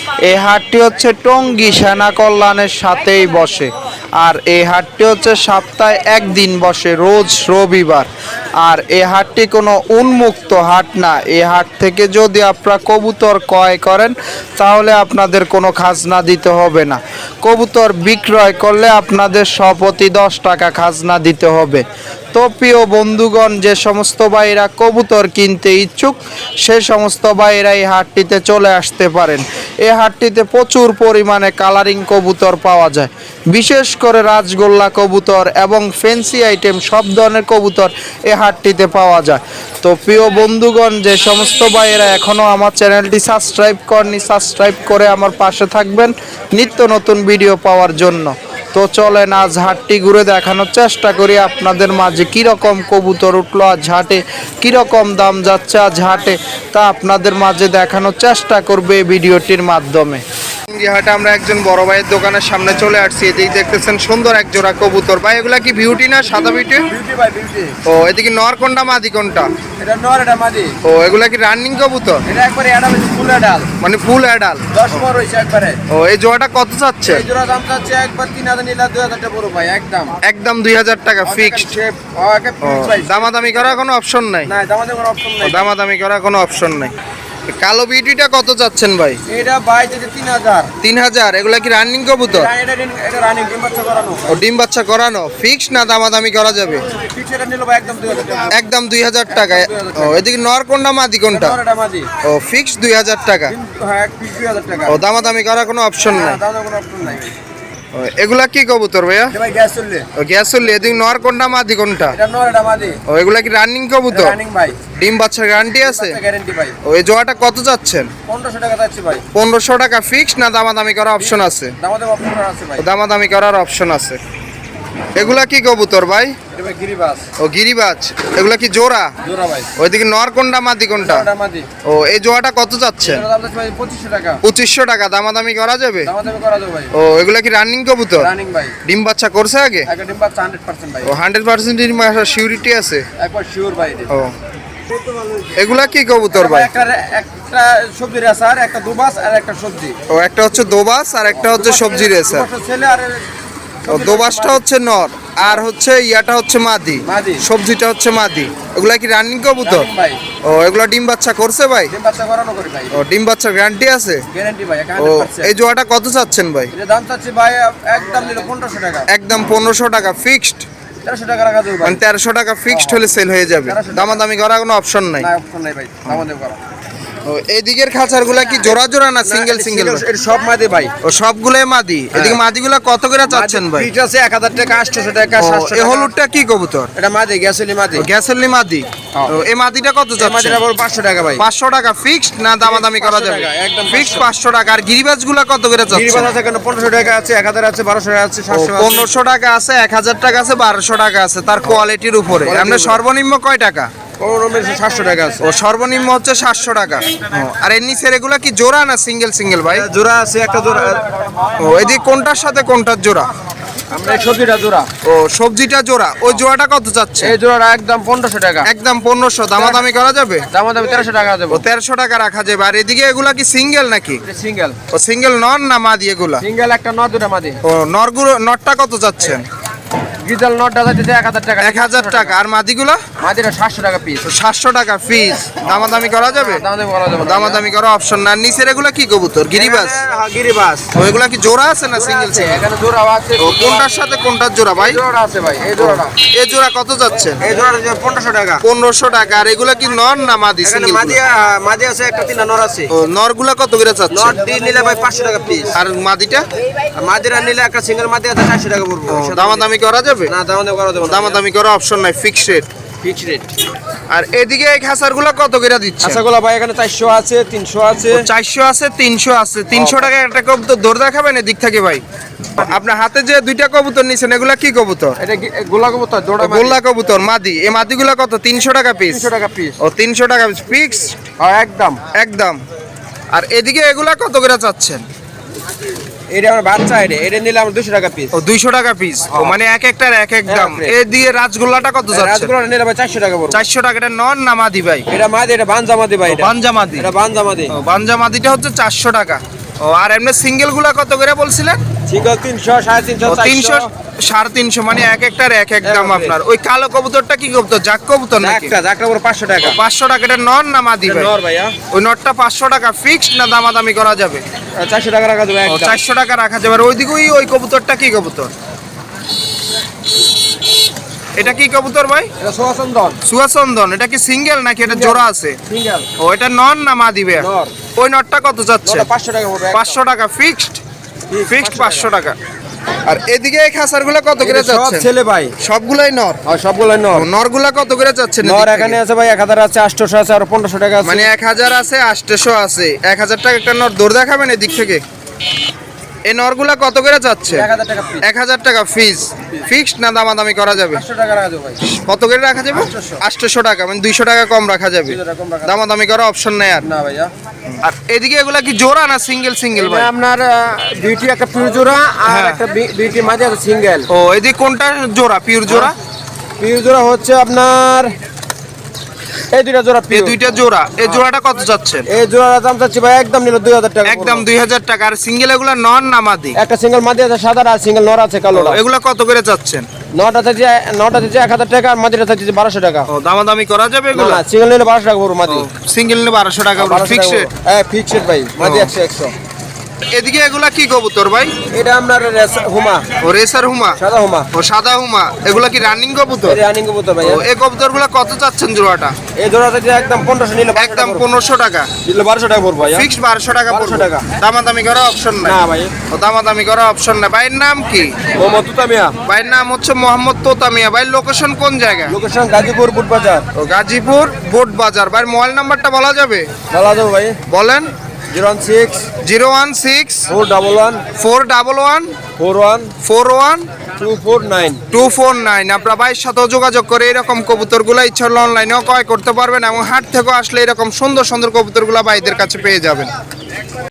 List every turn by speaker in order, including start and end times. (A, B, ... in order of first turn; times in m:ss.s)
0:00.2-0:08.1 A
0:08.6-1:06.9 A
1:06.9-1:07.8 B
1:07.8-1:09.5 A
1:09.8-1:10.7 B
1:10.8-1:12.2 A
1:12.3-1:13.7 B
1:13.8-1:14.7 A
1:14.7-1:15.8 B
1:15.9-1:17.2 A
1:17.0-1:20.1 B
1:20.2-1:21.7 A
1:21.2-1:23.8 B
1:22.6-1:24.5 A
1:24.4-1:25.6 B
1:25.4-1:26.9 A
1:27.5-1:29.2 A
1:29.3-1:30.7 B
1:30.8-1:32.5 A
1:32.3-1:34.3 B
1:34.3-1:36.8 A
1:36.9-1:38.6 B
1:38.5-1:41.6 A
1:39.3-1:40.2 B
1:41.3-1:42.1 B
1:42.2-1:43.5 A
1:43.5-1:45.0 B
1:44.9-1:46.4 A
1:46.0-1:47.3 B
1:47.9-1:49.3 A
1:49.3-1:50.0 B
1:50.2-1:52.1 A
1:52.1-1:53.0 B
1:53.1-1:54.4 A
1:54.1-1:54.8 B
1:55.0-1:56.2 A
1:55.8-1:56.8 B
1:56.8-1:58.1 A
1:58.3-1:59.2 B
1:59.3-2:01.7 A
2:01.2-2:02.8 B
2:02.8-2:04.2 A
2:05.1-2:06.4 A
2:06.5-2:07.2 B
2:07.4-2:09.1 A
2:09.2-2:09.7 B
2:09.8-2:11.3 A
2:11.0-2:11.7 B
2:11.8-2:13.2 A
2:13.0-2:14.4 B
2:14.4-2:16.1 A
2:16.0-2:16.9 B
2:16.9-2:18.3 A
2:18.2-2:18.8 B
2:18.8-2:19.9 A
2:19.9-2:21.1 B
2:21.0-2:23.0 A
2:23.2-2:24.1 B
2:24.9-2:25.5 B
2:25.6-2:26.7 A
2:26.3-2:30.0 B
2:30.1-2:32.4 A
2:31.3-2:33.2 B
2:33.8-2:34.6 B
2:33.9-2:39.8 A
2:37.0-2:37.4 B
2:39.6-2:40.2 B
2:40.4-2:41.9 A
2:41.9-2:43.0 B
2:42.9-2:44.2 A
2:44.3-2:45.5 B
2:45.0-2:46.7 A
2:46.7-2:49.1 B
2:49.1-2:50.6 A
2:51.0-2:52.0 B
2:51.8-2:55.3 A
2:52.7-2:53.1 B
2:53.6-2:54.2 B
2:55.2-2:56.6 B
2:57.2-3:00.0 A
2:58.6-3:00.9 B
3:01.0-3:03.9 A
3:02.1-3:02.4 B
3:03.3-3:06.1 B
3:05.4-3:06.9 A
3:07.0-3:08.0 B
3:08.0-3:10.6 A
3:09.1-3:09.4 B
3:10.2-3:11.4 B
3:11.4-3:16.3 A
3:12.6-3:14.2 B
3:15.9-3:19.1 B
3:18.5-3:23.9 A
3:22.4-3:23.0 B
3:24.2-3:25.4 B
3:25.4-3:29.8 A
3:29.7-3:31.7 B
3:31.6-3:33.3 A
3:33.9-3:34.9 B
3:35.0-3:37.3 A
3:37.2-3:38.7 B
3:38.6-3:40.4 A
3:39.6-3:39.9 B
3:40.5-3:41.6 B
3:41.5-3:44.2 A
3:44.2-3:44.8 B
3:44.9-3:46.4 A
3:46.4-3:47.6 B
3:47.6-3:49.4 A
3:50.2-3:52.4 B
3:51.6-3:53.0 A
3:53.2-3:54.2 B
3:54.2-3:56.6 A
3:56.2-3:57.6 B
3:57.2-4:00.0 A
3:59.5-4:00.9 B
4:00.9-4:02.6 A
4:02.0-4:04.0 B
4:03.4-4:05.0 A
4:04.8-4:06.1 B
4:05.8-4:07.4 A
4:07.4-4:08.6 B
4:08.6-4:11.2 A
4:10.6-4:12.9 B
4:12.9-4:14.4 A
4:14.1-4:15.8 B
4:15.7-4:16.4 A
4:16.9-4:19.7 B
4:19.1-4:20.3 A
4:20.3-4:21.4 B
4:21.0-4:22.7 A
4:23.0-4:23.5 B
4:24.1-4:26.2 A
4:26.0-4:28.2 B
4:28.1-4:32.0 A
4:29.7-4:30.1 B
4:32.6-4:35.2 A
4:35.2-4:36.8 B
4:36.4-4:39.2 A
4:39.1-4:39.8 B
4:39.8-4:41.2 A
4:41.4-4:42.0 B
4:42.1-4:42.6 A
4:43.3-4:45.0 A
4:46.3-4:48.3 B
4:48.3-4:52.5 A
4:49.3-4:49.6 B
4:50.5-4:50.9 B
4:52.1-4:53.6 B
4:53.5-4:55.0 A
4:55.1-4:57.7 B
4:56.3-4:57.1 A
4:57.7-5:01.8 A
5:02.1-5:03.9 B
5:03.2-5:08.7 A
5:05.8-5:06.4 B
5:08.4-5:09.8 B
5:09.6-5:11.3 A
5:11.0-5:11.7 B
5:11.9-5:14.4 A
5:14.8-5:16.0 B
5:15.7-5:18.5 A
5:21.4-5:22.3 A
5:22.4-5:23.2 B
5:23.2-5:25.6 A
5:24.8-5:26.1 B
5:26.2-5:29.1 A
5:27.4-5:27.7 B
5:28.8-5:30.0 B
5:29.7-5:30.8 A
5:31.3-5:32.1 B
5:31.5-5:32.4 A
5:33.1-5:35.1 A
5:34.4-5:35.5 B
5:35.6-5:36.4 A
5:36.4-5:37.2 B
5:37.1-5:39.0 A
5:38.4-5:41.3 B
5:41.0-5:45.0 A
5:46.3-5:47.7 A
5:47.5-5:48.2 B
5:48.2-5:51.0 A
5:50.9-5:51.8 B
5:51.9-5:56.8 A
5:52.7-5:53.2 B
5:55.0-5:55.7 B
5:56.8-5:57.3 B
5:57.7-6:00.1 A
5:59.8-6:04.1 B
6:02.2-6:02.6 A
6:04.1-6:05.9 A
6:06.6-6:08.1 B
6:09.5-6:10.4 B
6:10.1-6:12.0 A
6:12.1-6:14.4 B
6:14.0-6:16.6 A
6:16.6-6:18.8 B
6:18.5-6:19.9 A
6:20.2-6:23.1 B
6:23.1-6:24.4 A
6:24.1-6:25.7 B
6:25.5-6:27.5 A
6:26.8-6:29.3 B
6:28.6-6:28.9 A
6:30.1-6:31.5 A
6:31.7-6:33.0 B
6:33.2-6:34.0 A
6:34.0-6:34.5 B
6:34.5-6:36.6 A
6:36.4-6:37.4 B
6:37.2-6:39.1 A
6:39.4-6:41.2 B
6:40.8-6:41.9 A
6:42.0-6:43.1 B
6:42.9-6:45.6 A
6:43.7-6:44.2 B
6:45.4-6:45.9 B
6:46.1-6:48.2 A
6:48.3-6:49.1 B
6:49.2-6:52.1 A
6:52.1-6:53.5 B
6:53.5-6:56.5 A
6:56.7-6:57.4 B
6:57.5-6:57.9 A
6:58.3-6:59.0 B
6:59.2-7:00.3 A
7:00.3-7:01.0 B
7:01.1-7:02.2 A
7:02.4-7:02.9 B
7:03.0-7:03.7 A
7:04.0-7:04.8 B
7:04.9-7:13.1 A